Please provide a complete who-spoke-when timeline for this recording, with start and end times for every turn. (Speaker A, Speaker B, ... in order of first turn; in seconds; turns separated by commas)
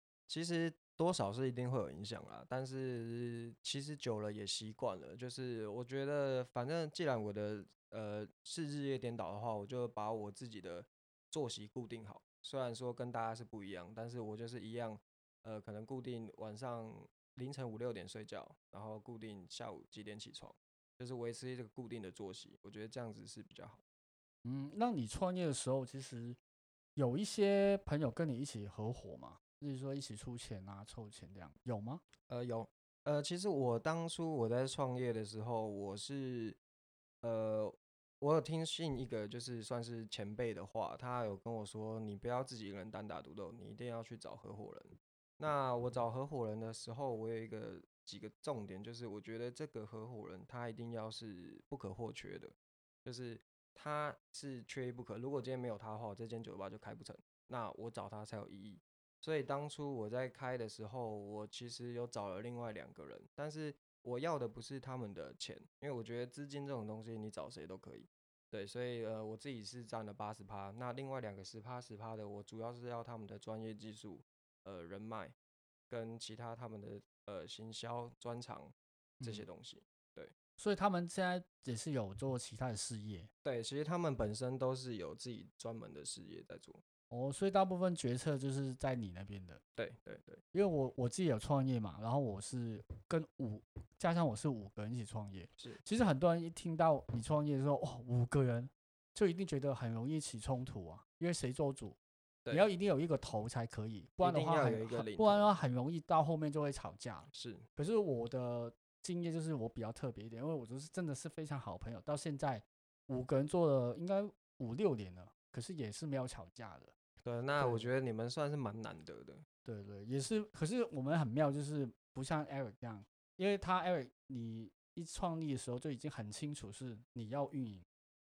Speaker A: 0.3-23.8, Speaker B: 24.4-26.4, Speaker B: 27.0-32.0, Speaker A: 32.3-36.6, Speaker A: 37.2-52.5, Speaker A: 53.0-75.3, Speaker A: 75.9-80.3, Speaker B: 79.2-79.5, Speaker B: 80.6-83.3, Speaker A: 83.4-86.8, Speaker B: 87.1-89.6, Speaker A: 89.8-90.4, Speaker B: 90.5-102.0, Speaker B: 102.5-116.9, Speaker A: 104.2-105.5, Speaker A: 107.3-107.7, Speaker A: 117.2-119.4, Speaker B: 117.6-117.9, Speaker B: 119.7-127.9